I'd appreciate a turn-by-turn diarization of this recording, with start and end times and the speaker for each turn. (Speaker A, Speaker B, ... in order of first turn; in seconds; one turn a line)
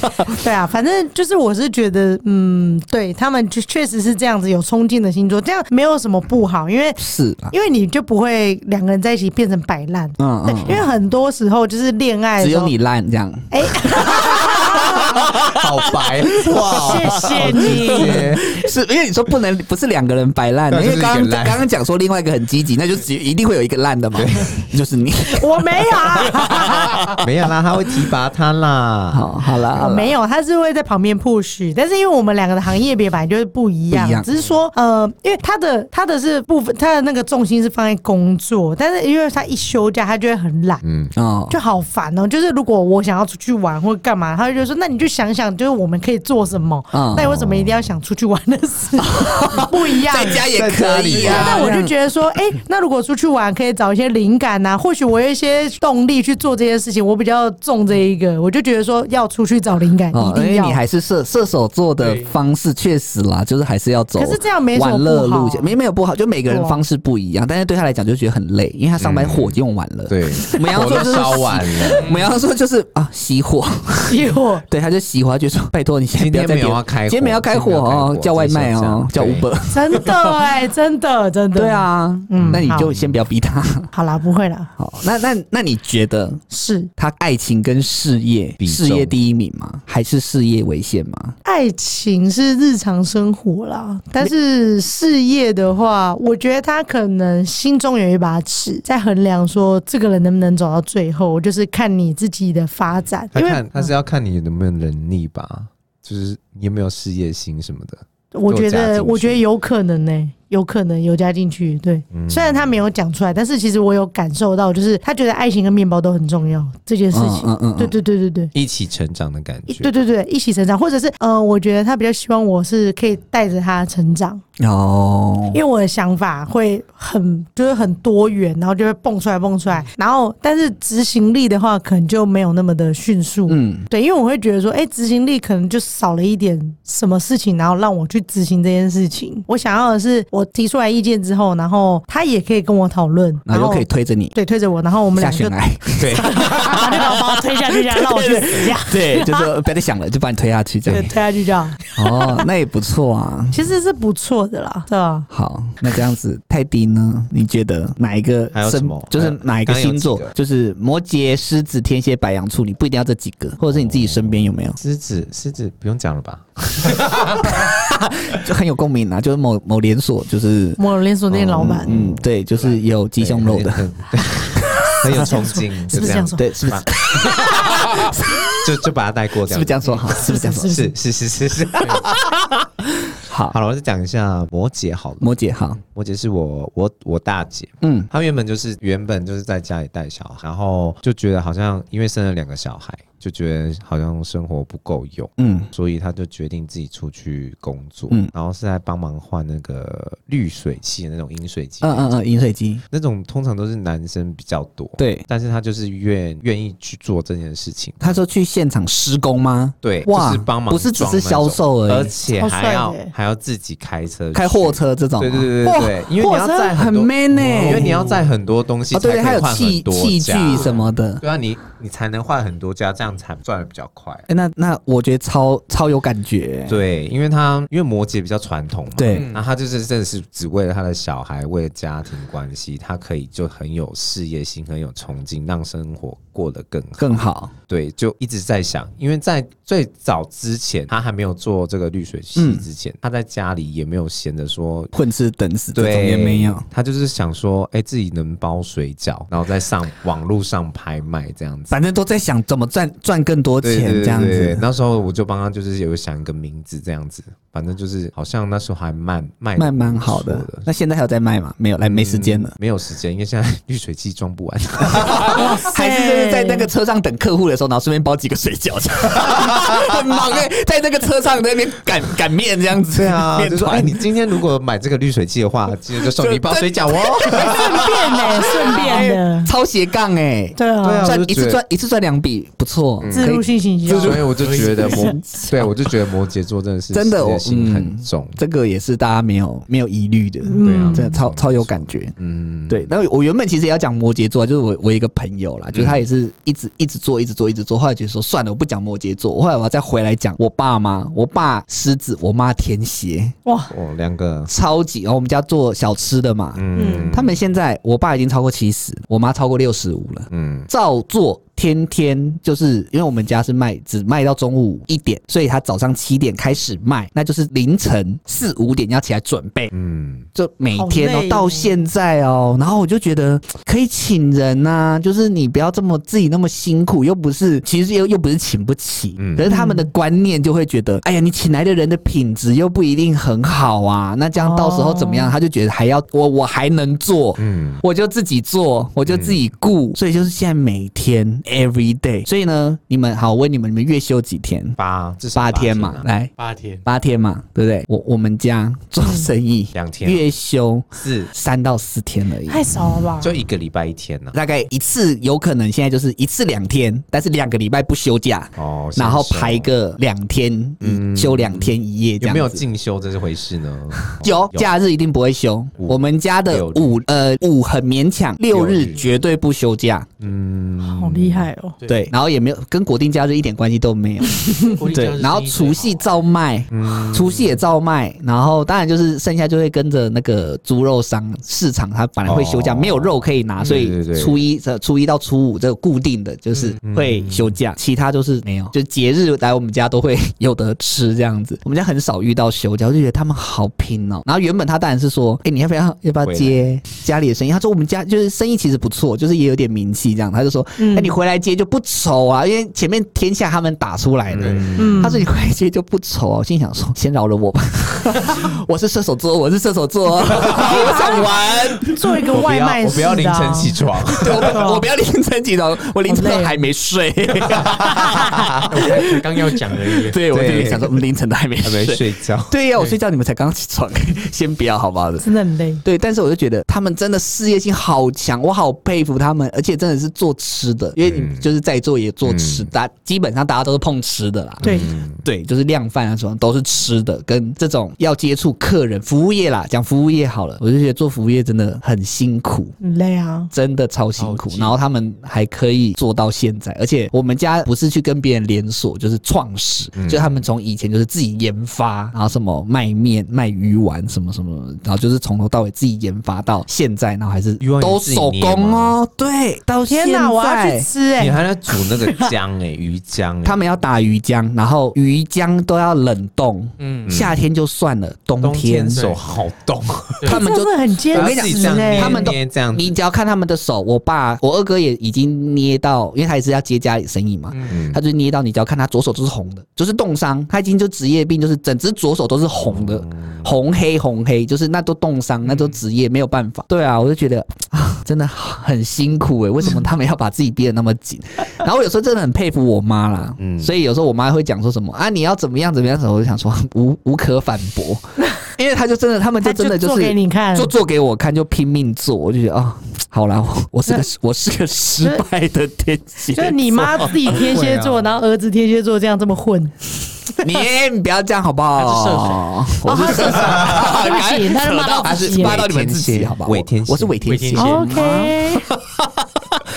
Speaker A: 0.3-12.7
Speaker B: 7.0-7.5
Speaker B: 10.2-10.8
Speaker B: 12.4-27.2
Speaker A: 13.5-15.3
Speaker C: 14.7-18.6
Speaker A: 16.7-18.7
Speaker C: 20.7-21.6
Speaker C: 24.1-24.6
Speaker A: 25.3-27.0
Speaker C: 27.2-29.3
Speaker B: 29.1-30.1
Speaker A: 29.8-40.8
Speaker B: 33.9-34.3
Speaker C: 40.8-41.1
Speaker B: 41.1-41.6
Speaker A: 41.5-50.5
Speaker B: 46.9-47.3
Speaker C: 47.2-47.8
Speaker B: 49.1-52.0
Speaker C: 50.4-51.7
Speaker A: 51.1-60.8
Speaker B: 60.1-80.3
Speaker D: 62.0-62.3
Speaker A: 64.2-65.7
Speaker A: 66.5-66.8
Speaker C: 69.0-69.6
Speaker C: 70.1-72.1
Speaker D: 72.0-72.3
Speaker A: 74.1-74.6
Speaker C: 76.2-79.5
Speaker A: 79.7-82.9
Speaker B: 81.5-83.9
Speaker C: 82.4-83.2
Speaker A: 83.9-84.7
Speaker B: 84.8-86.4
Speaker A: 86.5-86.9
Speaker B: 87.0-91.4
Speaker C: 88.6-89.2
Speaker A: 91.5-103.9
Speaker C: 103.3-109.4
Speaker A: 108.3-118.5
Speaker C: 112.1-112.8
Speaker B: 117.1-117.9
Speaker C: 118.5-119.9
Speaker A: 119.7-124.4
Speaker B: 124.6-125.6
Speaker A: 125.5-145.6
Speaker B: 133.5-133.9
Speaker B: 143.5-144.3
Speaker B: 145.2-151.1
Speaker C: 146.0-146.7
Speaker A: 146.1-149.5
Speaker C: 150.9-151.1
Speaker A: 150.9-152.4
Speaker B: 152.0-153.6
Speaker A: 153.5-155.3
Speaker B: 155.3-164.8
Speaker C: 158.5-160.3
Speaker C: 163.8-167.5
Speaker B: 167.4-170.8
Speaker A: 170.8-171.9
Speaker C: 171.3-172.2
Speaker B: 171.6-173.8
Speaker C: 173.2-182.2
Speaker B: 174.5-175.3
Speaker A: 175.1-177.7
Speaker B: 175.9-178.7
Speaker B: 179.5-180.8
Speaker A: 180.1-180.9
Speaker D: 181.8-182.1
Speaker B: 183.2-183.6
Speaker C: 183.5-202.2
Speaker B: 185.2-185.8
Speaker B: 187.8-188.1
Speaker B: 195.4-195.7
Speaker B: 201.8-202.8
Speaker C: 202.9-208.2
Speaker B: 205.0-205.3
Speaker B: 208.0-212.1
Speaker C: 209.8-224.3
Speaker A: 212.3-213.1
Speaker B: 214.3-216.1
Speaker A: 216.2-216.8
Speaker B: 216.7-218.1
Speaker D: 217.4-218.3
Speaker B: 218.9-221.2
Speaker B: 224.3-226.8
Speaker C: 226.7-244.9
Speaker B: 228.9-229.3
Speaker D: 229.1-229.4
Speaker B: 237.0-237.5
Speaker B: 242.4-242.6
Speaker B: 244.9-246.7
Speaker C: 245.7-251.8
Speaker B: 251.7-254.6
Speaker C: 253.6-260.7
Speaker B: 259.6-262.5
Speaker C: 261.8-265.6
Speaker B: 265.1-274.0
Speaker A: 265.3-266.7
Speaker C: 272.9-278.2
Speaker B: 276.0-285.9
Speaker A: 277.3-279.5
Speaker C: 278.7-279.0
Speaker A: 280.6-281.1
Speaker C: 280.8-281.6
Speaker C: 283.0-283.3
Speaker A: 283.1-284.3
Speaker C: 283.9-288.4
Speaker D: 284.4-285.1
Speaker A: 284.9-285.1
Speaker B: 286.9-292.1
Speaker A: 290.4-291.2
Speaker C: 290.6-292.9
Speaker B: 292.7-303.4
Speaker C: 295.7-296.0
Speaker A: 303.5-303.7
Speaker C: 303.7-304.5
Speaker B: 304.5-319.7
Speaker C: 306.6-307.4
Speaker A: 306.7-307.1
Speaker C: 310.3-310.7
Speaker C: 319.7-320.3
Speaker B: 320.4-344.8
Speaker A: 320.8-321.8
Speaker C: 329.2-329.5
Speaker A: 329.4-329.9
Speaker A: 334.4-335.3
Speaker C: 337.4-337.8
Speaker C: 339.1-339.4
Speaker C: 344.8-346.1
Speaker B: 345.3-346.3
Speaker D: 346.4-346.9
Speaker B: 346.9-352.7
Speaker A: 349.0-349.3
Speaker C: 349.7-350.3
Speaker C: 351.0-351.3
Speaker A: 352.5-353.4
Speaker C: 353.2-354.4
Speaker B: 354.3-362.6
Speaker C: 358.6-359.7
Speaker C: 360.8-364.7
Speaker B: 364.0-370.1
Speaker C: 365.8-367.0
Speaker C: 368.5-369.1
Speaker C: 370.2-371.5
Speaker A: 370.8-371.8
Speaker D: 371.8-372.1
Speaker B: 371.9-412.0
Speaker A: 374.4-374.8
Speaker D: 374.7-376.1
Speaker C: 376.7-377.6
Speaker C: 382.2-384.4
Speaker C: 386.8-387.6
Speaker C: 396.2-396.6
Speaker A: 400.8-401.1
Speaker C: 404.3-405.1
Speaker D: 404.4-404.7
Speaker A: 404.8-405.3
Speaker C: 410.4-411.2
Speaker A: 410.4-414.9
Speaker C: 412.3-414.6
Speaker B: 414.1-419.1
Speaker A: 416.1-416.7
Speaker C: 417.6-418.7
Speaker D: 418.7-420.2
Speaker B: 420.0-425.3
Speaker C: 420.3-421.0
Speaker C: 421.6-422.5
Speaker A: 425.2-425.8
Speaker B: 425.8-442.8
Speaker C: 431.0-431.5
Speaker C: 432.2-432.7
Speaker A: 434.6-434.9
Speaker C: 434.6-435.2
Speaker A: 442.8-443.5
Speaker B: 443.5-460.9
Speaker D: 444.2-444.8
Speaker C: 450.0-450.4
Speaker C: 457.6-459.0
Speaker A: 459.9-462.3
Speaker C: 461.2-463.7
Speaker B: 463.4-469.1
Speaker D: 466.8-467.3
Speaker C: 467.1-467.4
Speaker C: 468.4-470.3
Speaker D: 468.9-469.2
Speaker B: 470.2-507.4
Speaker A: 470.3-472.3
Speaker C: 471.1-472.9
Speaker D: 477.5-477.8
Speaker C: 477.7-478.0
Speaker C: 482.6-483.5
Speaker C: 493.4-493.7
Speaker A: 499.4-500.7
Speaker A: 506.3-509.7
Speaker C: 507.3-508.1
Speaker B: 510.4-519.6
Speaker D: 511.8-512.5
Speaker A: 512.9-515.7
Speaker C: 515.0-517.2
Speaker D: 517.2-518.0
Speaker A: 517.5-518.7